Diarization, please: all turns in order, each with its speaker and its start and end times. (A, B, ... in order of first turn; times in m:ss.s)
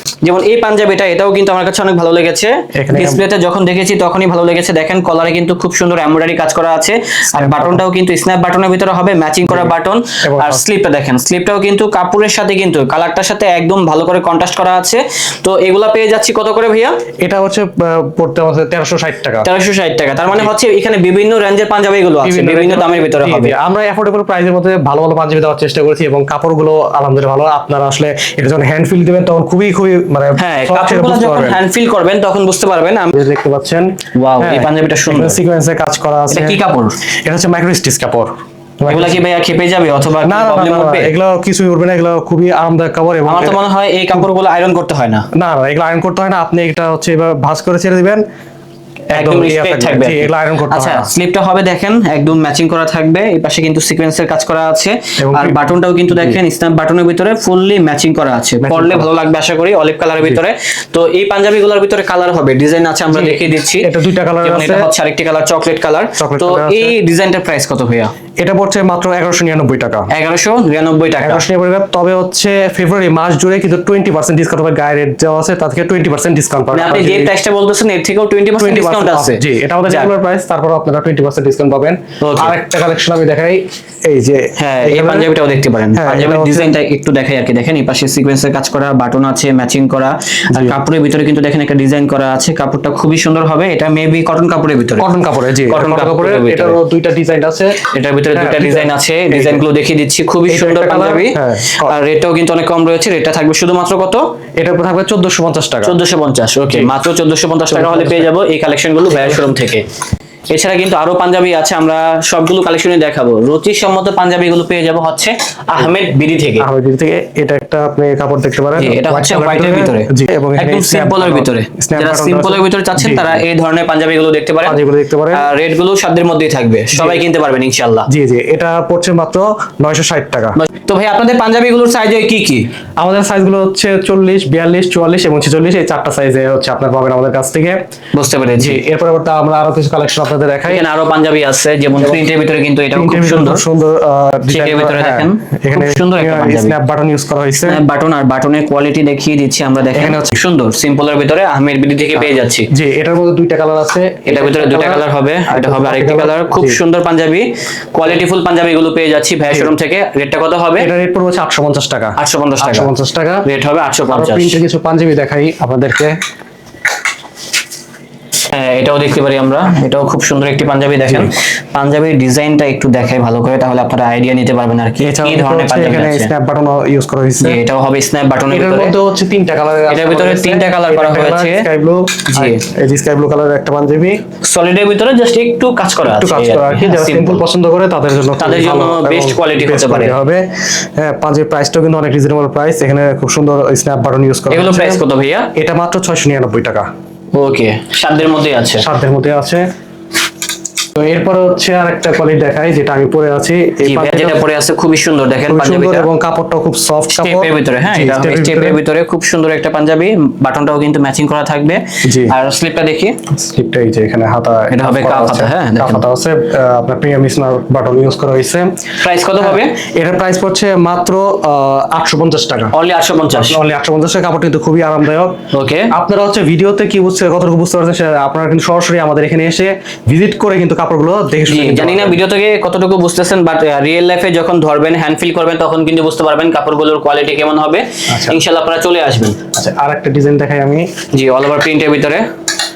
0:00.2-0:17.0 A
0:02.8-0:03.2 B
0:07.4-0:07.8 B
0:10.2-0:10.6 B
0:17.2-0:19.5 B
0:19.4-0:23.5 A
0:22.2-0:31.6 B
0:30.4-0:33.1 A
0:33.1-0:33.9 B
0:34.2-0:35.4 A
0:34.4-0:36.6 B
0:36.3-0:37.0 A
0:37.2-0:39.2 B
0:38.9-0:41.1 A
0:40.2-0:43.6 B
0:43.3-0:45.3 A
0:45.4-0:48.2 B
0:49.1-0:51.1 B
0:49.2-1:03.9 A
0:55.2-0:56.4 B
0:58.6-0:59.1 B
1:03.1-1:04.8 B
1:04.4-1:08.1 A
1:06.2-1:07.0 B
1:08.4-1:10.1 B
1:10.1-1:11.4 A
1:11.2-1:17.3 B
1:16.7-1:20.1 A
1:18.6-1:25.3 B
1:22.2-1:22.6 A
1:24.6-1:35.1 A
1:26.0-1:26.7 B
1:30.5-1:30.8 B
1:35.0-1:37.8 B
1:35.7-1:36.8 A
1:37.9-1:44.2 A
1:38.3-1:39.6 B
1:40.5-1:41.9 B
1:44.6-1:46.0 B
1:45.8-1:49.9 A
1:47.7-1:48.3 B
1:49.1-1:49.5 B
1:50.5-1:56.7 A
1:56.6-2:03.4 B
1:58.8-2:08.1 A
2:04.6-2:05.5 B
2:06.9-2:07.2 B
2:08.1-2:10.6 B
2:10.6-2:12.7 A
2:13.0-2:17.8 B
2:18.1-2:18.8 A
2:18.6-2:20.8 B
2:20.7-2:23.6 A
2:22.0-2:22.2 B
2:22.9-2:27.8 B
2:24.5-2:26.8 A
2:27.6-2:32.7 A
2:30.0-2:30.4 B
2:32.2-2:36.8 B
2:34.3-2:40.9 A
2:40.8-2:43.4 B
2:42.2-2:42.9 A
2:43.4-2:44.6 A
2:44.1-2:46.2 B
2:48.5-2:56.3 A
2:55.0-2:57.6 B
2:57.4-2:59.0 A
2:58.5-3:04.2 B
2:59.9-3:01.6 A
3:02.3-3:02.6 A
3:04.4-3:07.4 A
3:06.1-3:10.4 B
3:08.4-3:10.2 A
3:11.0-3:15.0 B
3:14.5-3:15.5 A
3:15.6-3:16.9 B
3:17.3-3:18.8 A
3:18.8-3:19.6 B
3:21.0-3:24.4 B
3:23.8-3:26.1 A
3:25.5-3:28.8 B
3:27.1-3:33.2 A
3:32.0-3:32.3 B
3:33.4-3:38.8 B
3:34.7-3:36.0 A
3:39.0-3:39.8 A
3:39.4-3:42.7 B
3:42.7-3:43.6 A
3:43.3-3:45.4 B
3:45.5-3:45.9 A
3:45.9-3:52.2 B
3:51.5-3:59.4 A
3:58.1-3:58.4 B
3:59.5-4:00.9 B
4:01.1-4:02.3 A